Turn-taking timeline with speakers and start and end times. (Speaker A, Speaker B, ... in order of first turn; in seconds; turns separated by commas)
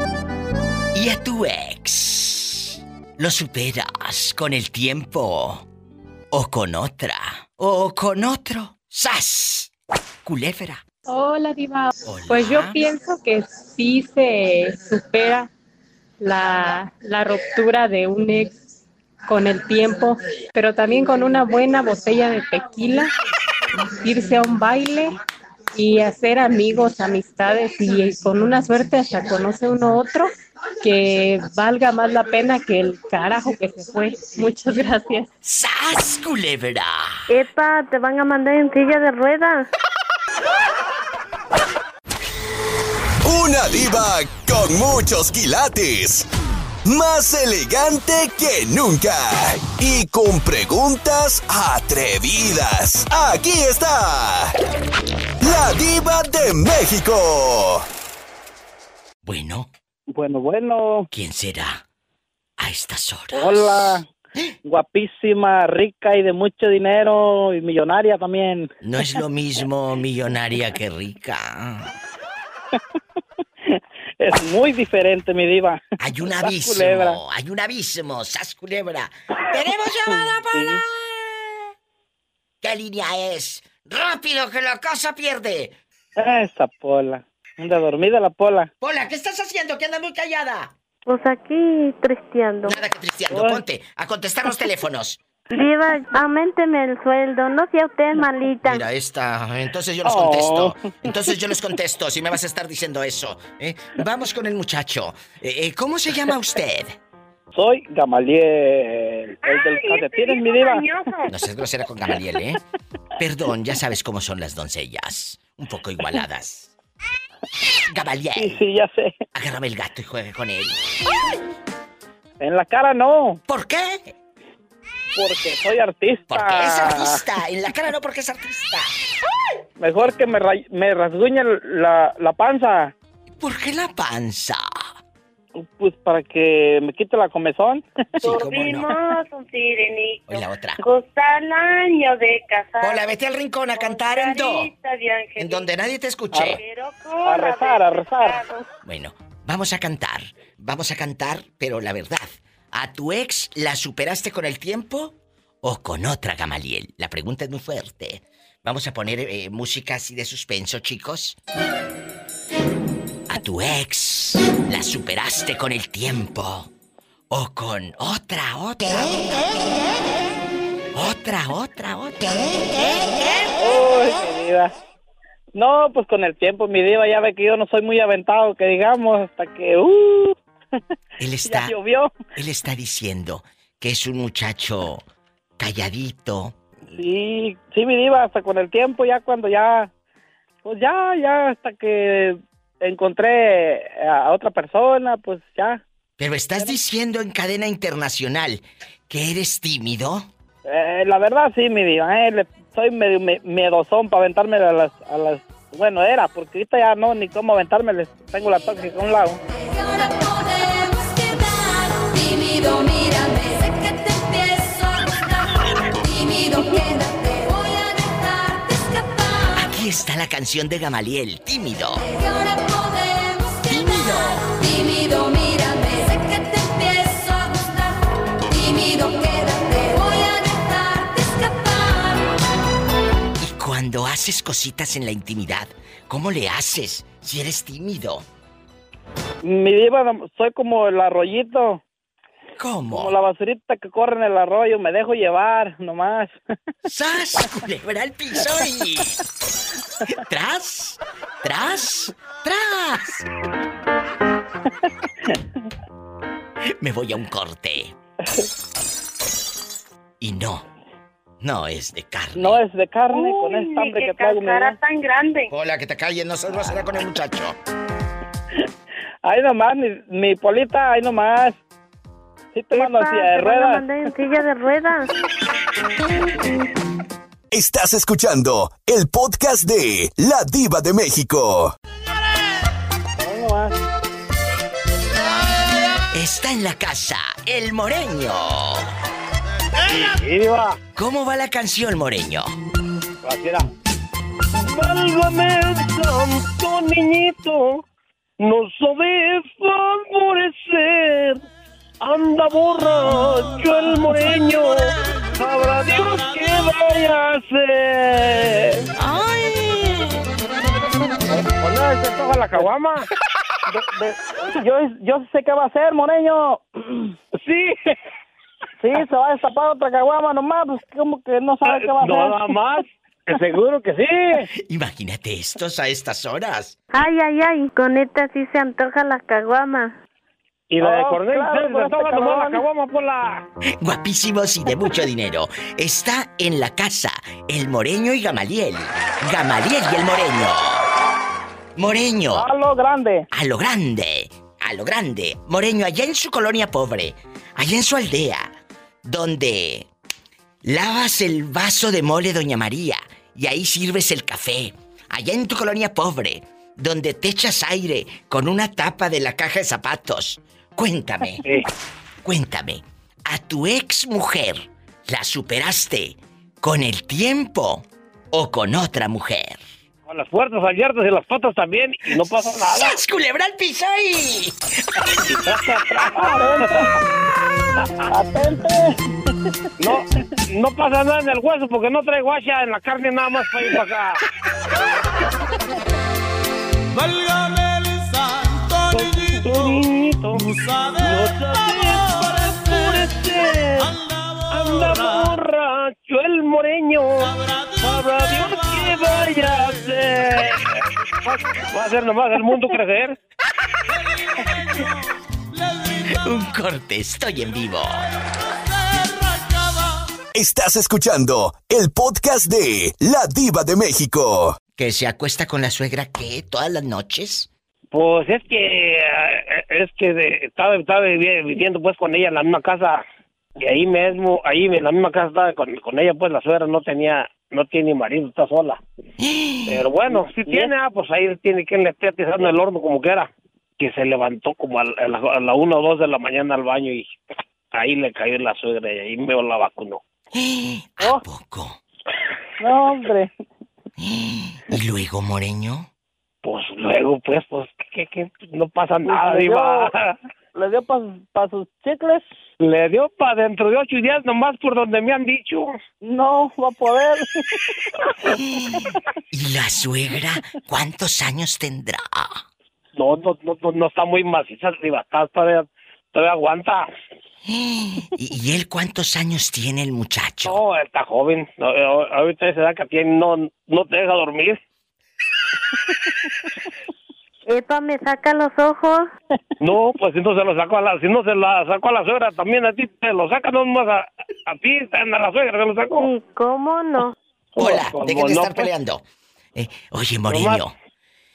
Speaker A: 0.9-5.7, Speaker A: 6.3-9.7, Speaker A: 10.2-10.8, Speaker B: 11.1-15.5, Speaker A: 12.0-12.8, Speaker B: 16.2-18.6, Speaker B: 19.3-23.1, Speaker B: 23.8-25.1, Speaker B: 25.7-30.3, Speaker B: 30.8-35.3, Speaker A: 35.4-37.2, Speaker C: 37.3-39.7, Speaker D: 43.2-46.3, Speaker D: 46.8-54.5, Speaker D: 55.4-57.8, Speaker A: 59.2-59.7, Speaker E: 60.1-61.1, Speaker A: 61.1-61.8, Speaker A: 62.6-64.5, Speaker E: 63.3-64.0, Speaker E: 64.6-68.7, Speaker A: 68.8-71.9, Speaker E: 73.7-77.2, Speaker A: 76.0-81.5, Speaker E: 80.1-80.8, Speaker A: 82.6-85.7, Speaker E: 86.2-88.7, Speaker A: 88.8-90.7, Speaker C: 91.1-92.8, Speaker A: 92.7-95.2, Speaker E: 93.3-93.6, Speaker C: 95.5-98.8, Speaker A: 98.7-107.0, Speaker E: 100.0-101.0, Speaker E: 107.5-110.9, Speaker F: 109.4-111.3, Speaker A: 111.3-112.6, Speaker A: 113.2-116.7, Speaker A: 117.9-118.6, Speaker E: 118.3-119.2, Speaker A: 119.3-120.9, Speaker E: 122.4-123.4, Speaker A: 123.5-124.1, Speaker E: 125.2-127.2, Speaker A: 126.3-128.9, Speaker E: 129.8-132.9, Speaker A: 133.4-134.6, Speaker E: 135.6-137.8, Speaker A: 138.2-139.0, Speaker F: 138.2-143.1, Speaker A: 140.3-140.8, Speaker A: 142.8-144.7, Speaker F: 143.7-145.7, Speaker A: 145.4-146.6, Speaker F: 146.4-148.7, Speaker E: 147.2-148.4, Speaker A: 148.8-161.4, Speaker A: 163.3-166.7, Speaker A: 167.3-169.6, Speaker A: 170.9-172.8, Speaker E: 173.6-174.7, Speaker E: 175.6-180.3, Speaker A: 181.2-181.7, Speaker E: 181.4-182.2, Speaker A: 182.3-185.0, Speaker A: 185.6-186.6, Speaker E: 186.9-189.9, Speaker E: 190.6-195.8, Speaker A: 196.2-200.3, Speaker E: 200.7-209.4, Speaker A: 219.5-222.0, Speaker A: 223.6-224.5, Speaker A: 233.4-238.2, Speaker E: 239.4-241.8, Speaker A: 242.6-243.2, Speaker E: 242.9-246.4, Speaker A: 246.8-249.1, Speaker A: 250.1-253.2, Speaker A: 256.8-257.9, Speaker A: 260.2-260.6, Speaker A: 261.4-262.6, Speaker E: 262.4-264.8, Speaker F: 263.1-265.5, Speaker A: 265.5-267.6, Speaker E: 269.2-271.6, Speaker E: 272.5-273.9, Speaker C: 272.7-275.1, Speaker D: 277.5-281.7, Speaker E: 283.2-283.7, Speaker A: 286.1-288.8, Speaker G: 289.9-290.8, Speaker A: 290.9-292.5, Speaker G: 293.3-293.6, Speaker G: 294.6-297.8, Speaker G: 298.4-301.4, Speaker G: 302.0-308.0, Speaker G: 311.6-313.1, Speaker E: 313.7-316.6, Speaker G: 317.4-317.9, Speaker E: 318.8-322.5, Speaker G: 321.6-324.4, Speaker A: 324.6-326.7, Speaker C: 326.9-329.9, Speaker G: 330.7-333.4, Speaker E: 330.8-332.6, Speaker A: 333.8-340.8, Speaker A: 341.8-342.5, Speaker E: 342.3-343.2, Speaker A: 343.3-348.5, Speaker A: 349.0-349.9, Speaker A: 350.6-361.4, Speaker A: 362.2-369.6, Speaker G: 370.1-373.0, Speaker A: 372.6-375.1, Speaker G: 375.3-376.9, Speaker E: 376.1-376.8, Speaker E: 378.1-378.9, Speaker G: 379.8-384.2, Speaker H: 386.9-389.7, Speaker G: 389.4-390.4, Speaker H: 390.4-393.1, Speaker G: 391.0-392.1, Speaker G: 392.7-393.9, Speaker H: 393.8-395.2, Speaker G: 394.5-400.6, Speaker H: 397.4-400.1, Speaker G: 401.2-403.1, Speaker H: 404.4-404.9, Speaker H: 405.6-406.2, Speaker A: 406.1-408.0, Speaker H: 408.5-409.9, Speaker D: 410.3-414.6, Speaker A: 414.8-417.5, Speaker G: 417.9-423.0, Speaker G: 423.6-428.8, Speaker A: 429.2-429.8, Speaker G: 429.7-437.1, Speaker E: 430.1-430.7, Speaker G: 437.7-440.0, Speaker A: 440.3-441.8, Speaker E: 442.6-443.3, Speaker A: 444.0-445.9, Speaker G: 446.4-450.1, Speaker E: 449.0-449.9, Speaker E: 450.5-452.2, Speaker G: 452.6-455.7, Speaker E: 456.0-457.3, Speaker A: 458.3-462.4, Speaker G: 463.0-466.9, Speaker A: 467.4-470.6, Speaker G: 470.4-474.6, Speaker C: 477.5-479.1, Speaker G: 479.6-486.1, Speaker C: 486.0-487.1, Speaker G: 487.6-488.7, Speaker A: 487.6-489.0, Speaker A: 489.5-490.7, Speaker G: 490.3-490.6